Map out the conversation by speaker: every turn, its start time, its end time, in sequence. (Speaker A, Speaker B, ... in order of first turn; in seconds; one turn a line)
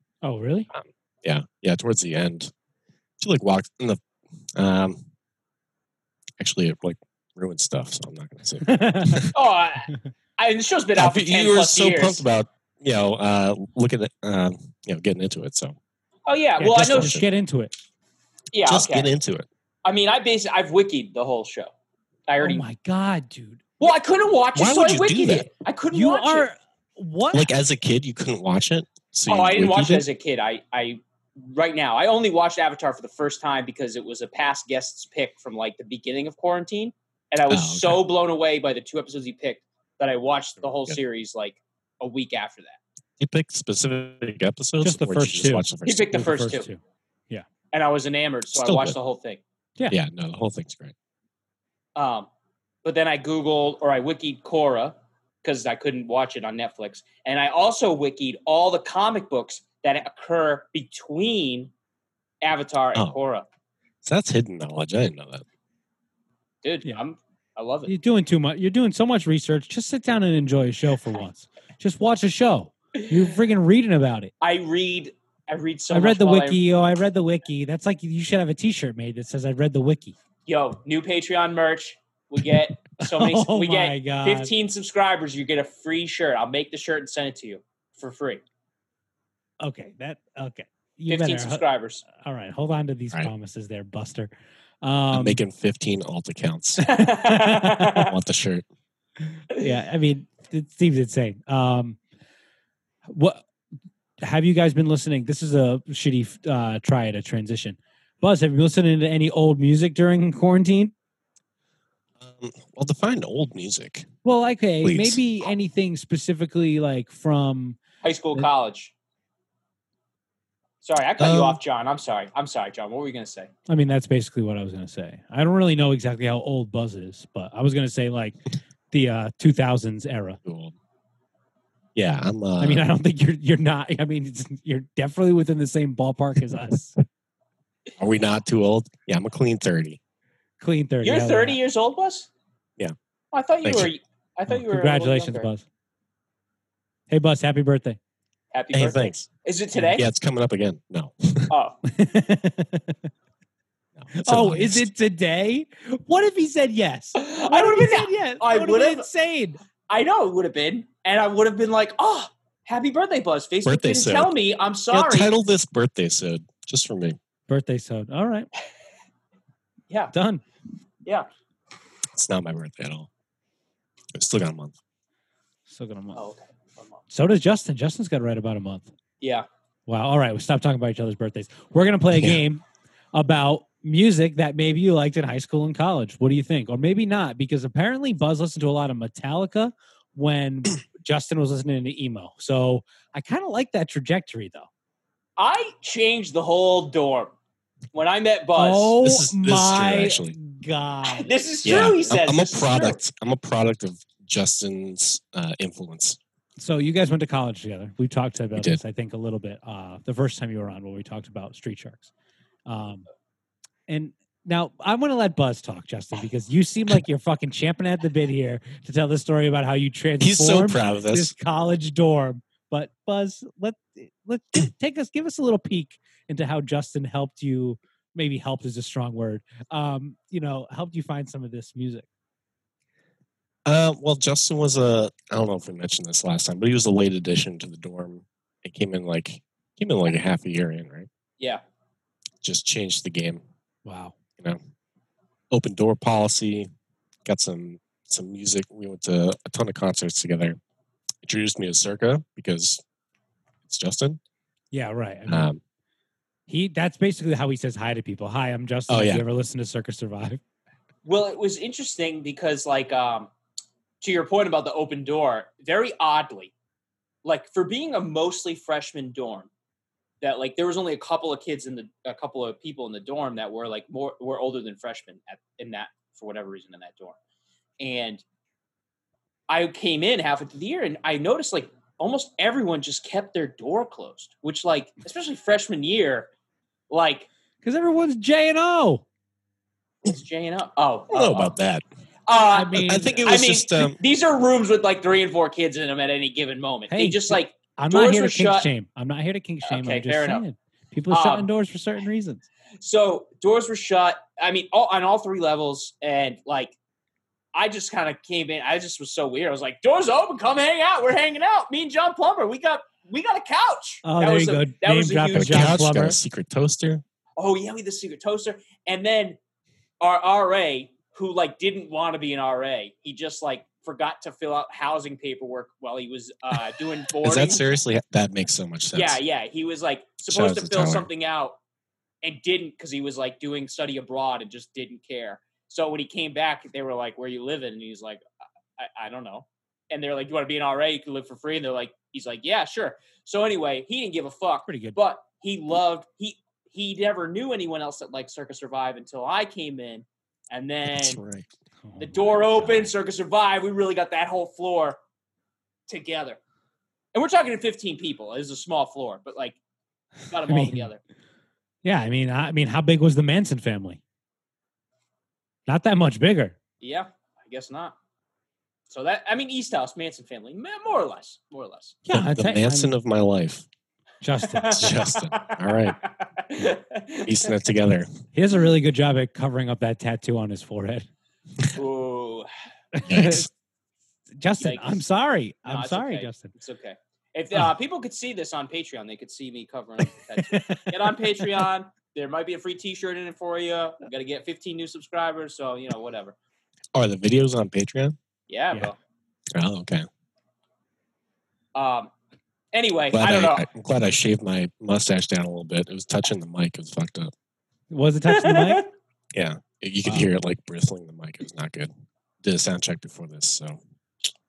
Speaker A: 0.2-0.7
Speaker B: 0.7-2.5
Speaker B: 3.2-4.0
Speaker B: 4.5-5.0
Speaker B: 6.4-9.3
Speaker A: 8.6-9.3
Speaker C: 9.3-12.2
Speaker B: 10.9-15.8
Speaker C: 16.2-17.1
Speaker A: 16.6-17.7
Speaker B: 16.7-17.3
Speaker C: 18.5-19.1
Speaker B: 18.6-19.5
Speaker C: 19.9-21.7
Speaker C: 22.3-22.6
Speaker A: 22.4-23.6
Speaker C: 23.8-26.5
Speaker B: 24.5-25.5
Speaker A: 25.9-27.5
Speaker B: 27.3-30.1
Speaker C: 29.3-42.8
Speaker B: 37.5-38.0
Speaker B: 40.6-41.0
Speaker B: 43.2-46.2
Speaker A: 44.8-47.5
Speaker C: 45.9-46.7
Speaker C: 47.7-49.4
Speaker B: 48.5-49.0
Speaker B: 49.9-50.9
Speaker C: 52.0-52.3
Speaker C: 52.8-61.7
Speaker C: 62.4-63.4
Speaker B: 64.0-65.4
Speaker C: 66.6-67.9
Speaker A: 67.9-74.3
Speaker C: 74.4-76.6
Speaker A: 75.9-80.1
Speaker C: 80.5-88.4
Speaker A: 83.0-84.5
Speaker A: 89.6-94.3
Speaker C: 91.1-92.0
Speaker A: 94.8-95.4
Speaker B: 95.1-96.9
Speaker A: 96.8-98.0
Speaker C: 96.8-98.1
Speaker B: 98.0-98.6
Speaker A: 99.2-102.0
Speaker A: 103.1-103.4
Speaker A: 104.2-110.9
Speaker B: 112.2-114.1
Speaker A: 114.2-117.8
Speaker B: 114.8-115.2
Speaker C: 118.0-118.9
Speaker C: 120.8-123.5
Speaker B: 121.2-121.6
Speaker A: 123.7-128.4
Speaker A: 128.9-130.4
Speaker B: 130.4-130.8
Speaker B: 131.9-132.9
Speaker A: 132.6-137.0
Speaker B: 138.0-140.0
Speaker A: 140.6-141.6
Speaker C: 141.0-142.3
Speaker C: 143.3-145.5
Speaker B: 143.6-143.9
Speaker A: 144.5-145.6
Speaker A: 147.1-148.0
Speaker C: 148.5-150.1
Speaker B: 148.7-149.3
Speaker B: 149.9-151.5
Speaker C: 151.5-151.8
Speaker A: 151.8-153.0
Speaker B: 154.0-154.9
Speaker A: 154.1-159.6
Speaker C: 157.2-159.1
Speaker C: 159.9-165.3
Speaker B: 163.6-164.3
Speaker B: 164.9-167.2
Speaker A: 167.5-168.5
Speaker A: 170.1-170.4
Speaker B: 172.1-173.1
Speaker B: 174.1-174.8
Speaker A: 175.7-176.2
Speaker C: 176.1-177.0
Speaker A: 177.1-178.9
Speaker C: 179.2-179.5
Speaker A: 179.9-194.7
Speaker B: 182.1-182.4
Speaker C: 195.4-197.3
Speaker C: 197.9-198.9
Speaker A: 198.5-201.8
Speaker B: 199.0-200.4
Speaker C: 201.0-203.0
Speaker B: 201.6-206.2
Speaker A: 206.6-212.1
Speaker B: 208.5-208.8
Speaker A: 212.7-213.1
Speaker A: 213.9-232.1
Speaker B: 220.2-221.3
Speaker B: 233.7-241.1
Speaker B: 242.4-243.4
Speaker A: 243.8-244.1
Speaker B: 245.5-246.7
Speaker B: 247.2-250.6
Speaker B: 251.2-252.8
Speaker B: 253.7-254.2
Speaker A: 254.7-255.5
Speaker B: 255.3-255.6
Speaker A: 256.5-260.4
Speaker B: 258.9-259.2
Speaker C: 261.0-263.3
Speaker C: 264.0-266.5
Speaker C: 267.2-269.5
Speaker C: 270.2-277.1
Speaker C: 277.8-278.2
Speaker C: 279.5-286.3
Speaker C: 286.9-287.3
Speaker A: 287.6-289.0
Speaker C: 290.0-291.5
Speaker B: 291.1-291.8
Speaker C: 292.3-298.7
Speaker A: 292.5-293.3
Speaker B: 292.7-294.0
Speaker A: 296.9-302.4
Speaker C: 299.6-300.4
Speaker C: 301.1-301.5
Speaker C: 302.8-306.8
Speaker C: 307.5-315.8
Speaker A: 314.0-316.2
Speaker B: 315.4-317.0
Speaker C: 317.4-319.4
Speaker C: 320.0-327.6
Speaker B: 327.2-329.2
Speaker C: 328.9-331.6
Speaker B: 330.2-331.1
Speaker C: 332.2-338.2
Speaker C: 338.8-351.2
Speaker A: 344.7-345.0
Speaker B: 350.9-351.5
Speaker A: 351.8-352.3
Speaker C: 352.0-355.0
Speaker B: 352.5-352.9
Speaker C: 355.9-356.4
Speaker C: 357.1-359.6
Speaker C: 360.3-361.0
Speaker A: 360.5-360.9
Speaker A: 361.8-364.0
Speaker A: 365.7-366.6
Speaker C: 366.8-367.9
Speaker C: 368.9-372.0
Speaker A: 372.1-372.9
Speaker B: 372.1-373.6
Speaker A: 374.2-374.9
Speaker C: 374.4-377.5
Speaker B: 374.7-376.0
Speaker B: 377.2-378.1
Speaker A: 378.3-381.1
Speaker C: 381.7-382.5
Speaker A: 382.9-383.5
Speaker B: 383.1-383.5
Speaker A: 384.4-386.5
Speaker C: 384.6-385.0
Speaker C: 385.6-396.4
Speaker A: 390.4-391.6
Speaker B: 396.9-398.1
Speaker C: 398.5-398.9
Speaker B: 399.5-400.1
Speaker C: 401.8-402.1
Speaker C: 402.7-403.6
Speaker B: 403.1-407.3
Speaker A: 407.9-408.9
Speaker C: 408.3-408.9
Speaker B: 409.3-411.9
Speaker B: 412.4-413.8